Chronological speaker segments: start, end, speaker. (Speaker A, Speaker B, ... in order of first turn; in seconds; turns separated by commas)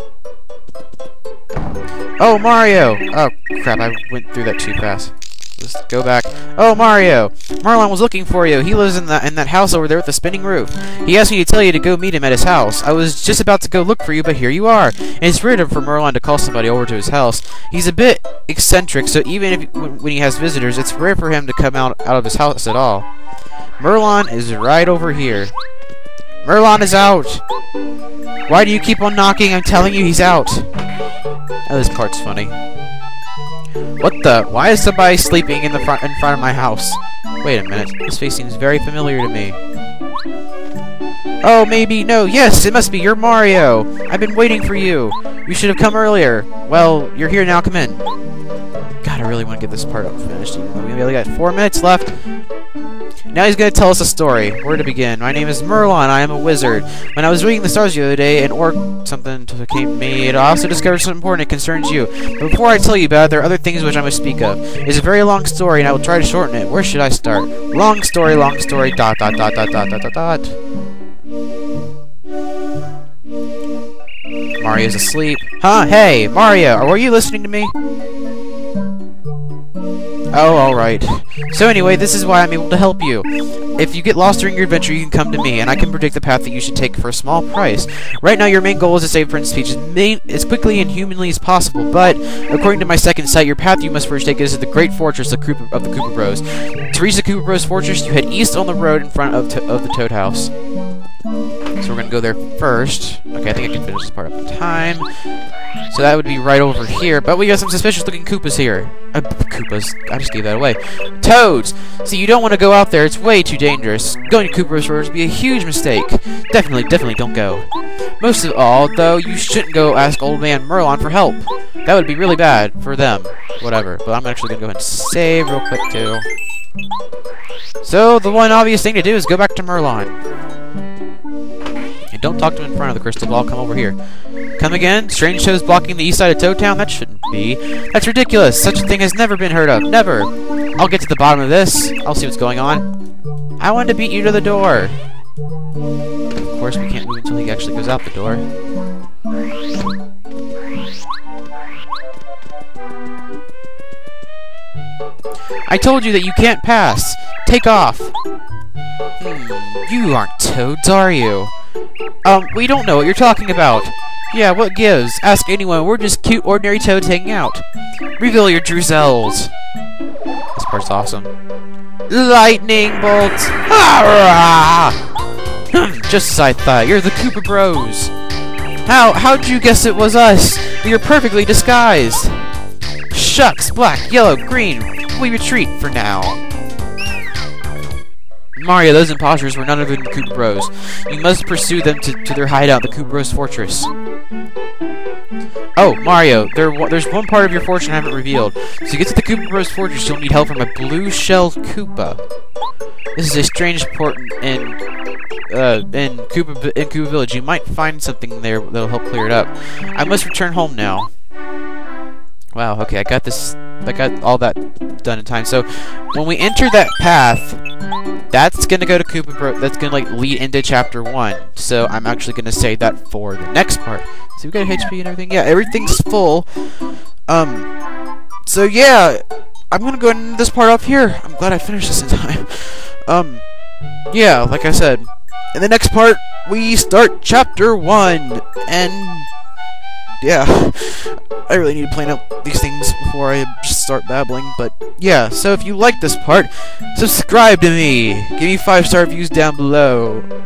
Speaker A: 2.2-23.1, Speaker A: 23.8-25.5, Speaker A: 26.4-27.4, Speaker A: 28.5-30.7, Speaker A: 31.7-32.5, Speaker A: 34.0-39.6, Speaker A: 41.4-48.0, Speaker A: 49.0-52.1, Speaker A: 53.3-70.6, Speaker A: 74.6-77.7, Speaker A: 80.3-100.5, Speaker A: 101.8-105.1, Speaker A: 105.9-117.7, Speaker A: 118.2-126.3, Speaker A: 127.8-130.2, Speaker A: 132.1-134.0, Speaker A: 134.6-142.9, Speaker A: 143.6-145.0, Speaker A: 146.4-148.4, Speaker A: 155.7-158.2, Speaker A: 159.2-161.5, Speaker A: 162.2-167.6, Speaker A: 168.2-169.5, Speaker A: 170.6-171.3, Speaker A: 172.1-175.0, Speaker A: 175.7-178.1, Speaker A: 178.8-182.4, Speaker A: 183.1-186.4, Speaker A: 188.6-193.9, Speaker A: 195.8-202.2, Speaker A: 203.2-204.8, Speaker A: 205.5-211.1, Speaker A: 212.5-217.6, Speaker A: 218.3-226.5, Speaker A: 227.3-227.7, Speaker A: 228.5-229.2, Speaker A: 229.7-233.4, Speaker A: 234.1-239.3, Speaker A: 240.2-250.3